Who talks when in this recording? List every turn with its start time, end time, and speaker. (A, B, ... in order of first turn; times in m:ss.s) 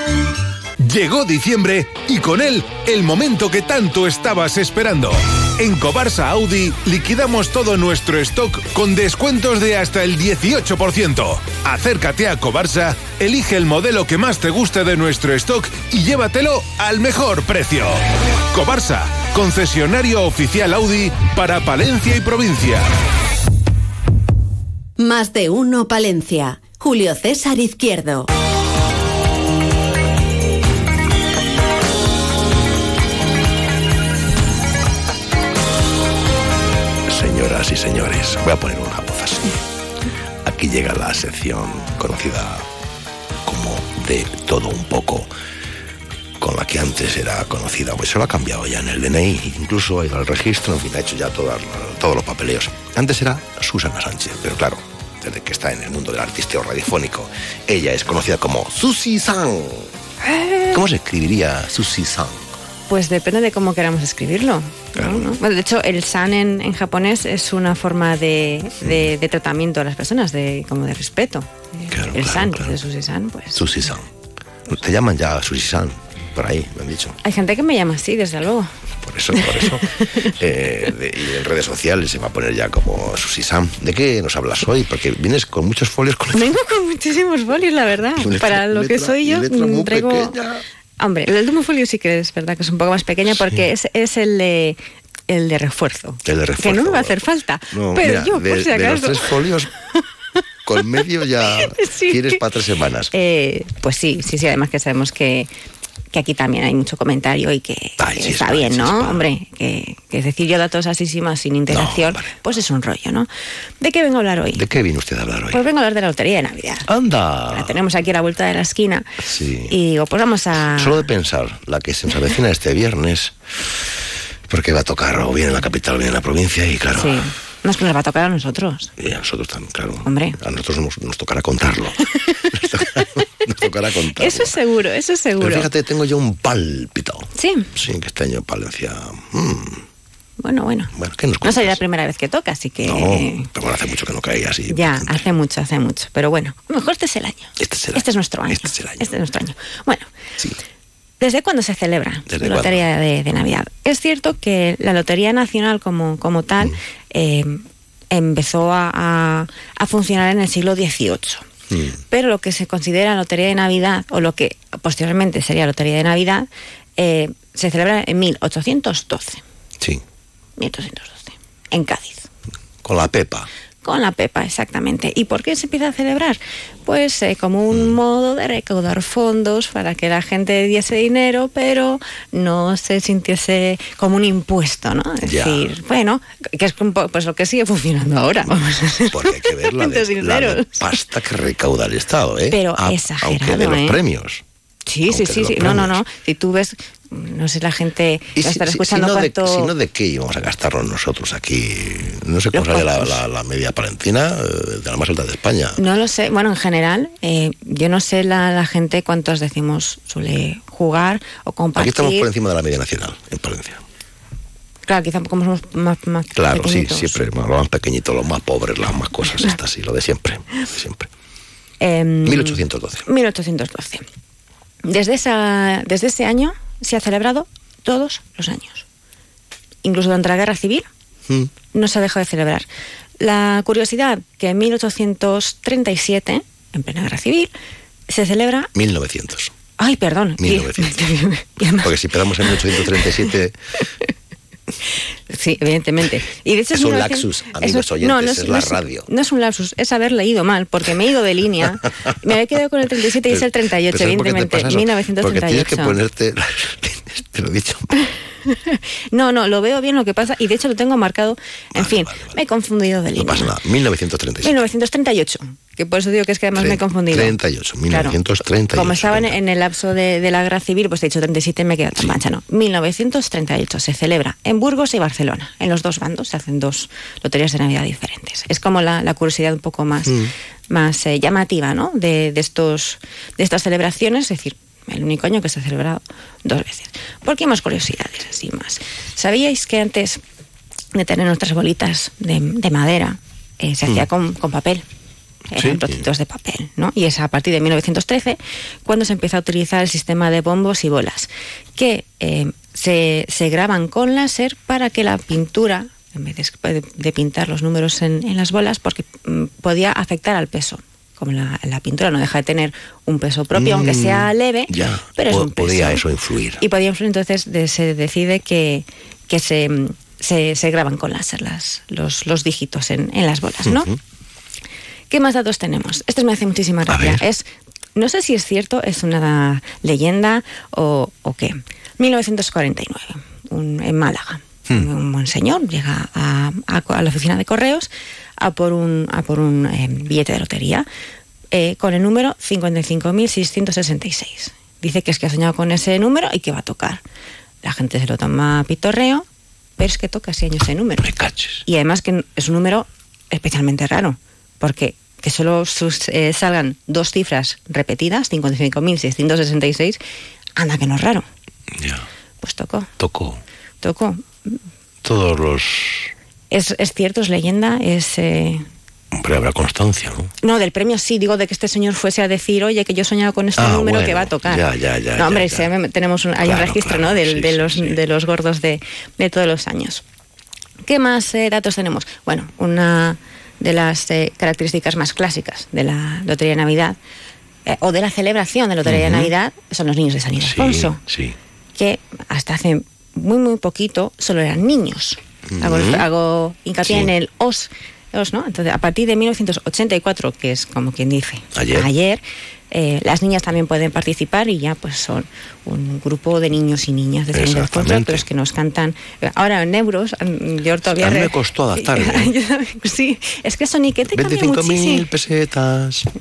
0:00.8-0:18.0 A
0:18.5-0:22.9 A
0:25.0-0:28.3 B
0:37.1-0:39.5 C
0:40.4-0:42.6 C
0:43.4-0:45.3 C
0:46.4-0:59.9 C
1:00.2-1:00.8 D
1:00.7-1:02.4 C
1:02.9-1:13.7 D
1:04.9-1:05.3 C
1:08.8-1:09.1 C
1:11.9-1:12.8 C
1:13.5-1:14.1 C
1:14.7-1:17.2 C
1:17.2-1:18.7 D
1:19.0-1:26.5 C
1:19.4-1:19.8 D
1:26.3-1:30.3 D
1:28.2-1:30.6 C
1:31.0-1:34.8 D
1:35.3-1:39.4 D
1:36.2-1:37.2 C
1:37.7-1:39.7 C
1:40.6-1:43.1 C
1:41.5-1:42.4 D
1:43.1-1:45.5 D
1:46.1-1:53.3 D
1:48.0-1:49.2 C
1:51.7-1:52.5 C
1:53.8-1:54.6 D
1:54.5-1:55.6 C
1:55.5-1:56.8 D
1:56.9-1:57.8 C
1:57.5-1:59.1 D
1:59.3-1:59.7 C
1:59.7-2:01.1 D
2:00.7-2:03.5 C
2:04.5-2:07.2 C
2:07.0-2:08.9 D
2:09.0-2:12.0 C
2:10.0-2:10.4 D
2:12.5-2:14.6 C
2:14.2-2:15.7 D
2:15.4-2:19.8 C
2:17.4-2:17.7 D
2:20.4-2:20.9 D
2:20.9-2:21.8 C
2:21.4-2:23.5 D
2:22.8-2:25.2 C
2:24.7-2:30.1 D
2:27.6-2:29.2 C
2:31.2-2:41.4 D
2:32.3-2:32.8 C
2:41.7-2:42.0 C
2:42.1-2:49.4 D
2:50.6-2:52.3 D
2:52.8-2:53.5 C
2:53.8-3:11.0 D
2:57.7-2:58.0 C
3:05.2-3:05.7 C
3:09.1-3:14.4 C
3:12.5-3:14.0 D
3:14.8-3:19.7 D
3:15.0-3:16.0 C
3:18.4-3:25.8 C
3:22.5-3:23.2 D
3:25.8-3:32.3 D
3:31.8-3:33.8 C
3:34.8-3:37.3 D
3:36.3-3:41.1 C
3:41.8-3:44.0 D
3:42.2-3:43.1 C
3:44.8-3:48.8 D
3:49.8-3:50.8 D
3:51.3-3:51.6 C
3:51.7-3:52.6 D
3:53.2-3:57.5 D
3:58.1-3:58.7 D
3:58.7-3:59.5 C
3:59.8-4:03.3 D
4:00.4-4:01.0 C
4:01.8-4:03.5 C
4:05.3-4:16.0 D
4:06.7-4:09.1 C
4:13.3-4:17.9 C
4:18.5-4:23.5 D
4:21.7-4:22.4 C
4:23.1-4:24.6 C
4:24.4-4:27.4 D
4:26.6-4:29.4 C
4:27.9-4:28.2 D
4:28.7-4:50.2 D
4:40.0-4:40.3 C
4:50.9-4:54.8 D
4:55.5-5:16.0 D
4:55.5-4:56.0 C
5:13.5-5:16.6 C
5:16.6-5:23.9 D
5:23.6-5:24.0 C
5:25.1-5:40.9 D
5:26.9-5:27.2 C
5:41.5-5:47.0 D
5:47.6-5:49.2 D
5:49.8-5:51.1 D
5:51.0-5:51.6 C
5:51.6-6:00.0 D
6:00.6-6:01.2 D
6:01.8-6:02.0 C
6:02.4-6:02.9 D
6:03.0-6:03.4 C
6:03.8-6:04.5 D
6:05.0-6:06.1 C
6:06.5-6:08.6 D
6:09.1-6:10.3 C
6:10.4-6:14.6 D
6:13.6-6:15.7 C
6:15.2-6:20.0 D
6:16.4-6:18.0 C
6:20.8-6:27.0 D
6:27.6-6:31.0 D
6:28.8-6:29.3 C
6:30.3-6:31.3 C
6:31.7-6:55.0 D
6:35.5-6:36.0 C
6:36.8-6:37.1 C
6:41.5-6:41.9 C
6:47.3-6:48.2 C
6:51.0-6:52.3 C
6:54.1-6:56.1 C